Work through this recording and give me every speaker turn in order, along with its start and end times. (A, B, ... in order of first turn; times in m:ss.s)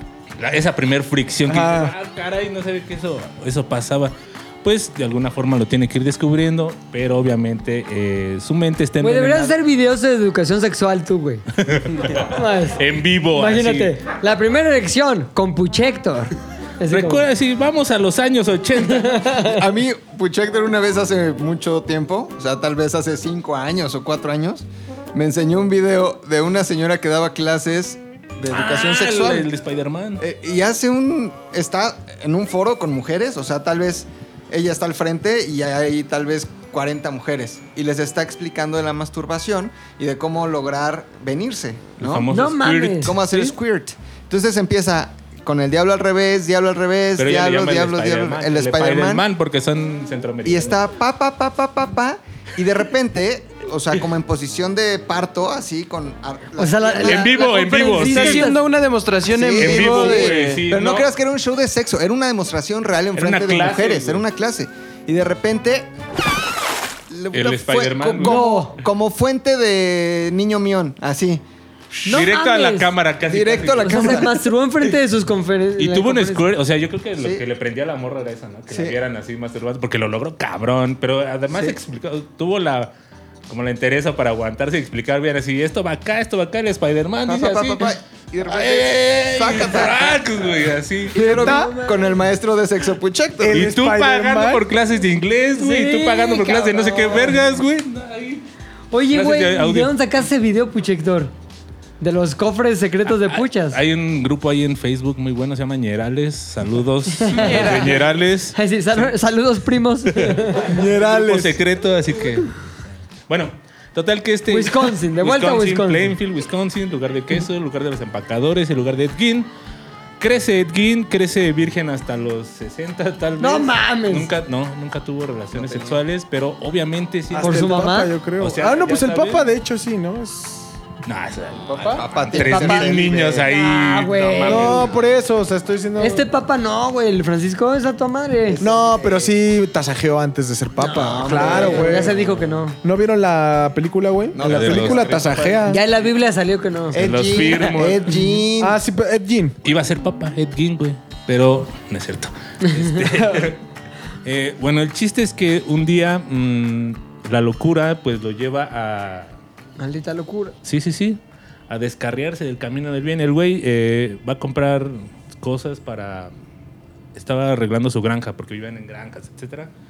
0:00.4-0:09.6 A
0:01.5-0:01.9 B
0:09.0-0:11.4 C
0:11.6-0:14.0 A
0:12.1-0:12.8 C
0:13.4-0:17.2 C
0:16.9-0:19.4 A
0:18.8-0:19.6 C
0:19.4-0:29.5 D
0:28.5-0:30.2 A
0:30.2-0:42.3 D
0:42.0-0:43.5 A
0:42.3-0:43.2 C
0:43.0-0:49.2 D
0:47.2-0:50.8 A
0:50.4-0:57.7 D
0:56.6-0:58.6 C
0:57.0-0:58.5 A
0:58.0-1:00.6 E
0:59.2-1:05.9 D
0:59.6-1:01.1 A
1:03.1-1:04.2 A
1:07.1-1:11.4 D
1:07.3-1:08.6 A
1:08.2-1:08.8 C
1:12.0-1:12.9 C
1:12.1-1:14.3 A
1:13.3-1:14.4 D
1:13.8-1:16.4 C
1:15.8-1:22.9 A
1:17.2-1:17.4 D
1:18.7-1:19.0 D
1:23.5-1:31.2 A
1:27.3-1:30.2 D
1:31.1-1:32.2 C
1:31.1-1:33.6 D
1:31.4-1:31.7 B
1:33.4-1:34.7 B
1:33.5-1:38.5 A
1:35.6-1:37.4 C
1:38.9-1:41.3 C
1:39.1-1:39.9 A
1:42.0-1:43.8 C
1:43.1-1:48.6 A
1:47.2-1:47.9 C
1:47.4-1:47.9 E
1:48.6-1:50.8 C
1:50.3-1:52.5 A
1:50.7-1:51.6 B
1:53.3-1:59.5 A
1:54.5-1:56.2 C
2:00.2-2:09.5 A
2:03.4-2:04.3 C
2:05.6-2:06.0 D
2:07.3-2:10.7 B
2:07.4-2:08.1 C
2:11.1-2:14.9 A
2:11.7-2:13.5 D
2:12.3-2:14.9 C
2:14.4-2:16.2 B
2:16.0-2:18.6 C
2:18.5-2:19.4 D
2:18.6-2:22.2 B
2:20.8-2:22.8 C
2:20.9-2:22.2 D
2:22.8-2:25.8 B
2:24.3-2:25.6 D
2:24.4-2:25.6 A
2:25.7-2:27.0 C
2:26.9-2:28.8 D
2:27.0-2:28.2 A
2:28.6-2:29.6 B
2:29.6-2:33.6 A
2:34.2-2:39.4 A
2:39.8-2:40.6 C
2:40.6-2:46.3 A
2:47.2-2:49.7 A